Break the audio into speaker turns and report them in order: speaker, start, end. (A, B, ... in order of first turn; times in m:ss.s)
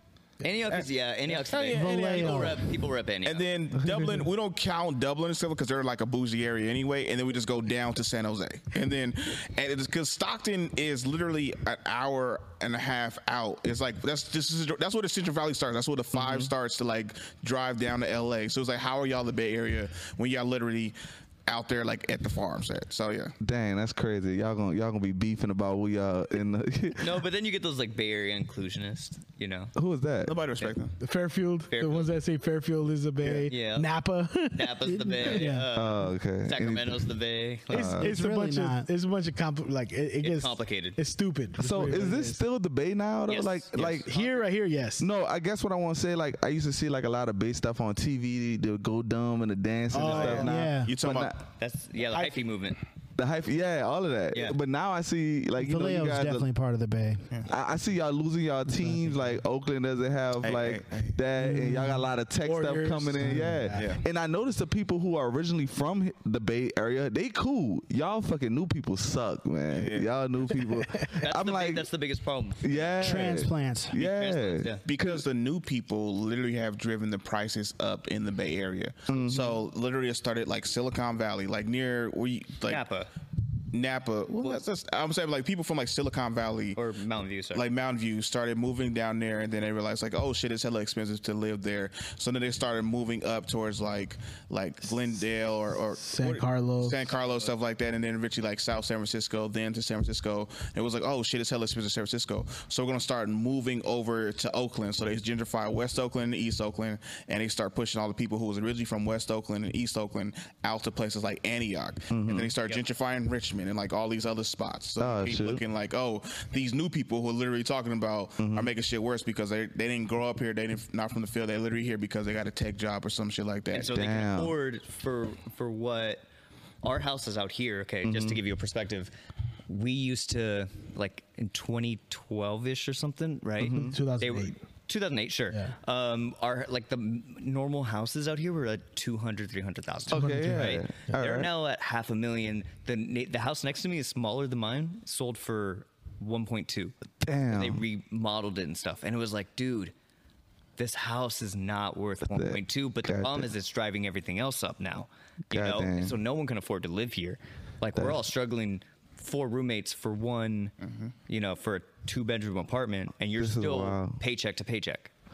0:00.4-0:03.4 A
0:01.5-0:02.4 B
0:01.7-0:02.6 C
0:01.7-0:02.6 D
0:03.2-0:20.9 B
0:16.2-0:16.5 E
0:21.5-0:23.3 B
0:23.4-0:27.2 E
0:27.0-0:29.7 A
0:29.8-0:30.3 E
0:30.2-0:30.9 B
0:31.0-0:35.7 D
0:31.7-0:32.1 A
0:33.5-0:33.9 A
0:34.5-0:38.0 A
0:34.9-0:35.6 C
0:35.7-0:37.1 E
0:37.7-0:38.1 E
0:37.7-0:42.4 D
0:38.0-0:38.9 C
0:40.2-0:41.0 A
0:41.6-0:44.1 E
0:43.3-0:44.4 A
0:44.1-0:45.1 D
0:45.0-0:51.4 E
0:49.9-0:50.6 D
0:50.0-0:51.3 B
0:50.4-0:50.9 C
0:51.6-0:52.8 A
0:52.1-0:52.4 D
0:53.2-0:56.4 E
0:54.3-0:54.6 A
0:55.6-0:57.2 C
0:57.5-1:11.8 E
0:58.7-0:59.1 C
1:00.4-1:01.2 B
1:01.4-1:02.1 C
1:02.4-1:03.9 D
1:03.2-1:03.6 C
1:09.7-1:10.1 B
1:10.6-1:11.1 D
1:11.2-1:13.3 A
1:12.6-1:15.2 E
1:13.0-1:13.9 C
1:13.9-1:14.8 A
1:14.8-1:22.8 B
1:19.1-1:19.6 E
1:22.7-1:23.1 A
1:23.7-1:26.8 B
1:24.4-1:24.6 A
1:26.7-1:27.6 A
1:27.5-2:03.9 B
1:36.0-1:37.0 D
1:52.1-1:52.5 E
1:55.0-1:55.6 E
1:58.4-1:58.7 E
2:03.7-2:06.2 A
2:03.9-2:04.5 E
2:06.8-2:09.1 A
2:08.0-2:08.4 E
2:09.7-2:27.0 A
2:13.6-2:14.0 E
2:13.6-2:14.6 D
2:20.1-2:21.5 E
2:20.1-2:20.8 D
2:27.2-2:27.8 E
2:27.5-2:29.9 A
2:30.8-2:40.7 A
2:32.2-2:33.5 E
2:35.5-2:36.2 E
2:38.0-2:38.2 E
2:40.8-2:41.1 B
2:41.3-2:45.1 A
2:43.4-2:44.2 E